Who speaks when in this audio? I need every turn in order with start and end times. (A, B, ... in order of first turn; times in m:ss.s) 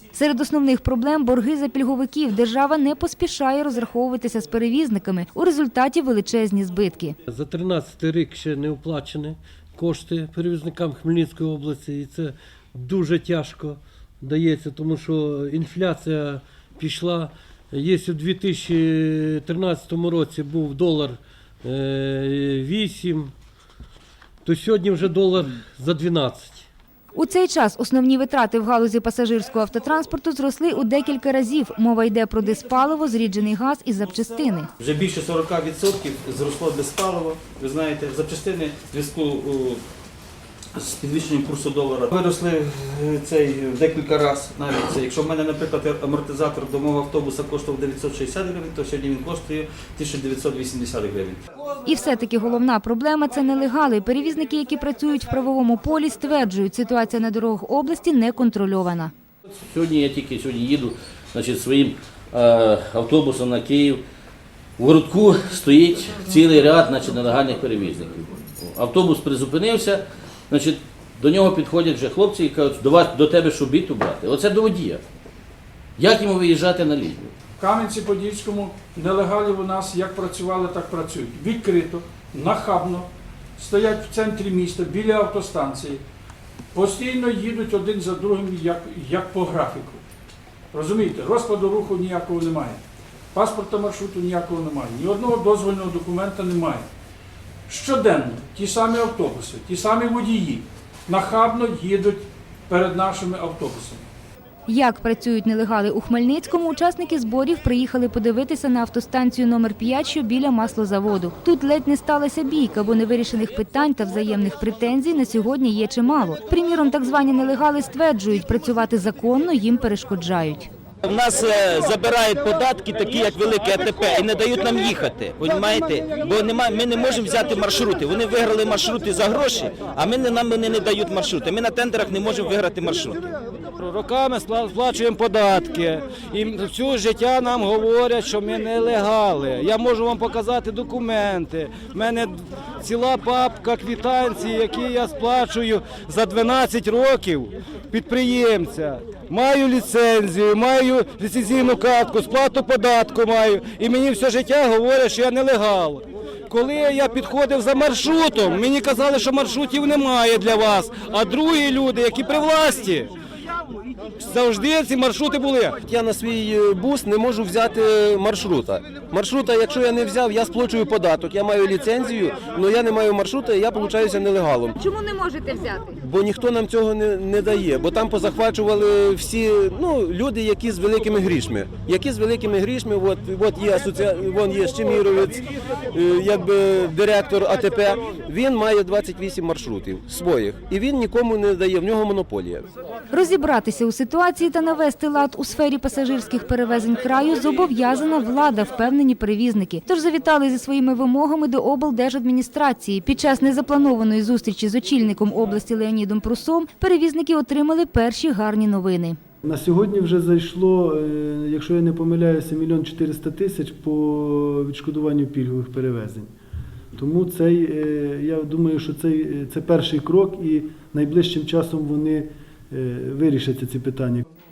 0:00.1-0:07.1 A
0:07.3-0:23.3 B
0:24.4-0:26.7 B
0:27.1-0:34.7 A
0:34.8-0:39.8 C
0:40.8-0:51.4 C
0:51.8-0:59.1 A
0:59.6-1:04.0 D
1:04.8-1:15.0 D
1:16.0-1:17.3 D
1:17.6-1:26.0 E
1:26.7-1:30.0 E
1:30.7-1:32.8 E
1:33.3-1:36.8 E
1:37.7-1:44.0 E
1:44.7-2:00.7 A
2:01.0-2:13.2 F
2:13.8-2:43.1 G
2:44.2-2:45.8 G
2:45.8-2:54.8 H
2:54.8-2:55.9 A
2:55.9-3:12.7 H
3:13.1-3:29.2 A
3:29.4-3:36.3 I
3:36.9-3:44.2 I